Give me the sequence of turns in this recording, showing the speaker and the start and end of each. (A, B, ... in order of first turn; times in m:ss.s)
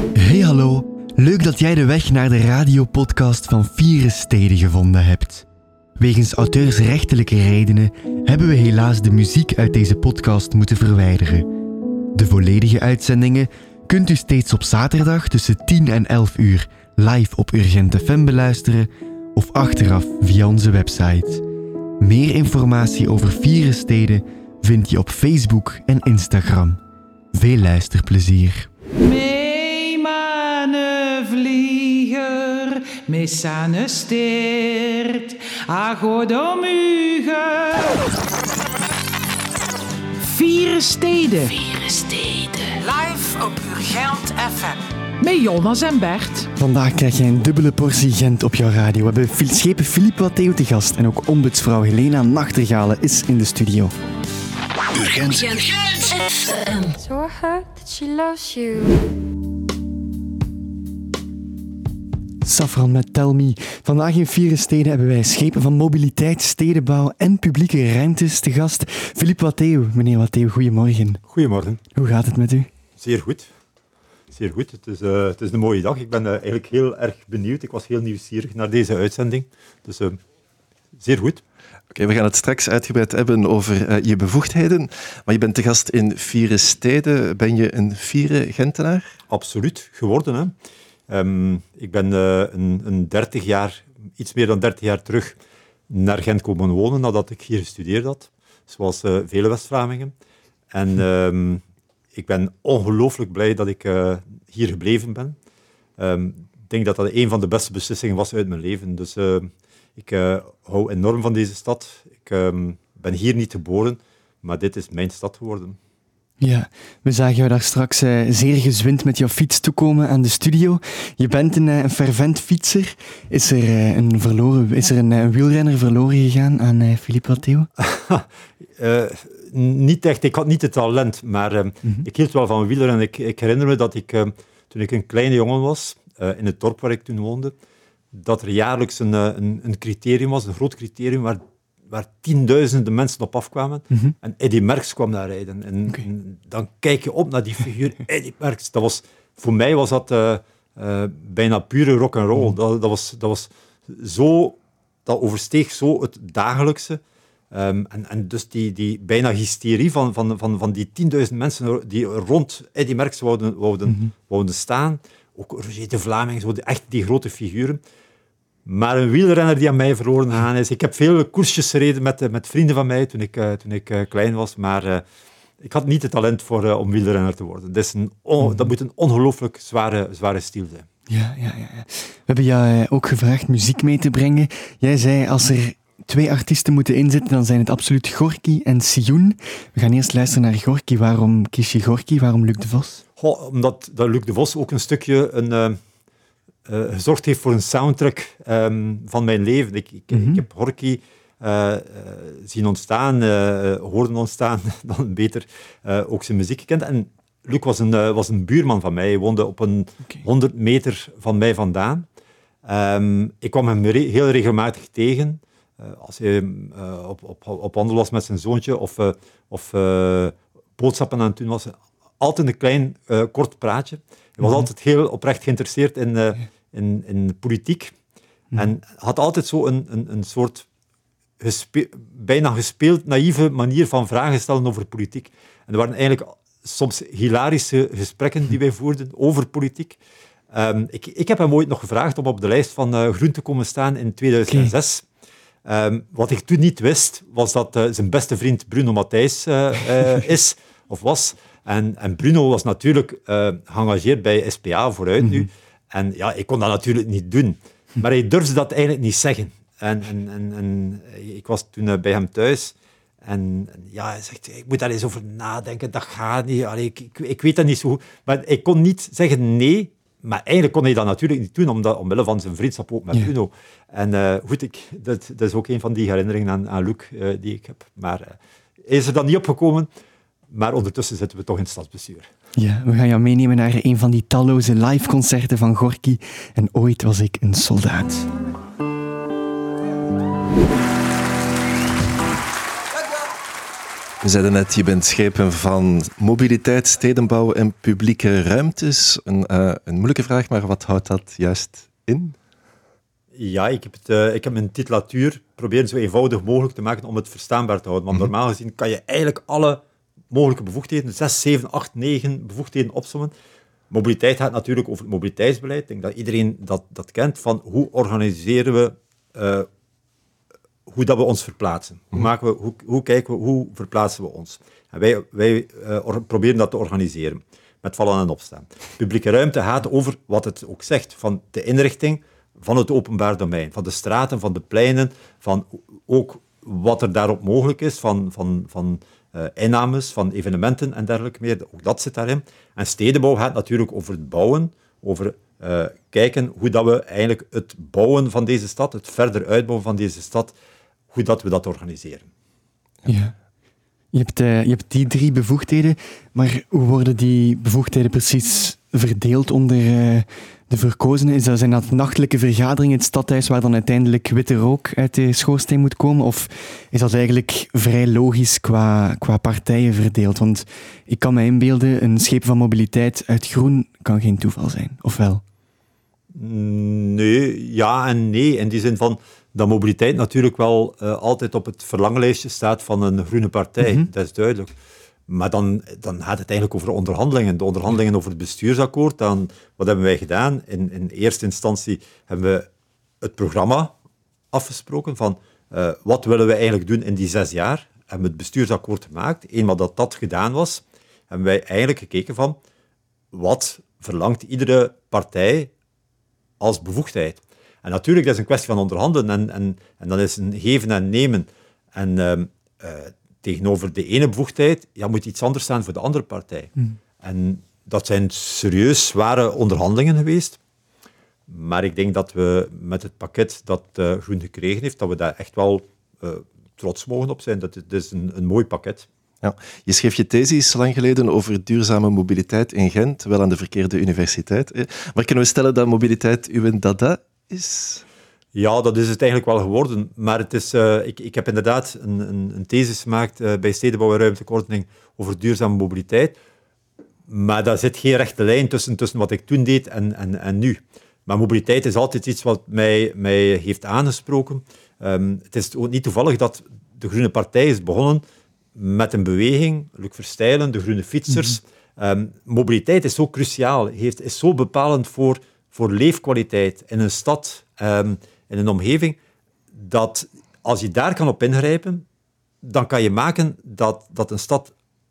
0:00.2-0:05.5 A
0:06.0-0:11.5 A
0:12.1-0:21.4 A
0:22.0-0:26.8 A
0:27.3-0:28.7 A
0:29.0-0:38.0 B
0:40.2-0:46.5 B
0:46.6-0:53.9 A
0:55.0-0:55.3 A
0:56.9-0:59.1 C
1:02.4-1:11.2 A
1:11.3-1:11.8 D
1:12.0-1:12.7 A
1:13.0-1:13.5 D
1:14.3-1:20.2 D
1:21.0-1:21.4 D
1:21.9-1:29.2 E
1:29.3-1:30.5 D
1:31.1-1:35.4 D
1:35.9-1:40.1 D
1:40.7-1:41.6 D
1:42.2-1:45.4 D
1:46.0-1:55.8 D
1:56.4-2:07.7 A
2:07.8-2:08.3 D
2:08.8-2:17.5 D
2:18.1-2:37.0 D
2:37.5-2:47.8 D
2:48.7-2:55.0 D
2:55.6-3:00.9 D
2:58.4-2:58.7 A
3:01.1-3:13.0 A
3:13.2-3:15.8 D
3:16.7-3:32.1 D
3:20.1-3:20.4 A
3:32.6-3:47.9 D
3:48.5-3:50.6 D
3:51.4-4:00.0 D
4:00.5-4:05.0 D
4:04.5-4:04.7 A
4:05.7-4:22.7 D
4:15.2-4:15.5 A
4:23.2-4:39.9 D
4:40.5-4:42.3 D
4:42.6-4:48.3 A
4:54.2-5:02.4 E
5:03.4-5:13.3 D
5:13.9-5:19.7 D
5:20.9-5:50.5 D
5:51.1-5:52.3 D
5:53.1-5:53.3 A
5:54.1-6:15.4 A
6:16.3-6:24.7 D
6:23.8-6:24.1 A
6:25.3-6:32.7 D
6:33.2-6:33.9 D
6:34.5-6:42.6 D
6:43.3-6:45.7 D
6:46.6-7:00.6 D
7:01.5-7:09.1 D
7:09.4-7:18.0 E
7:18.6-7:26.4 D
7:27.3-7:38.2 D
7:38.8-7:49.2 D
7:49.7-7:52.0 D
7:52.6-7:54.7 D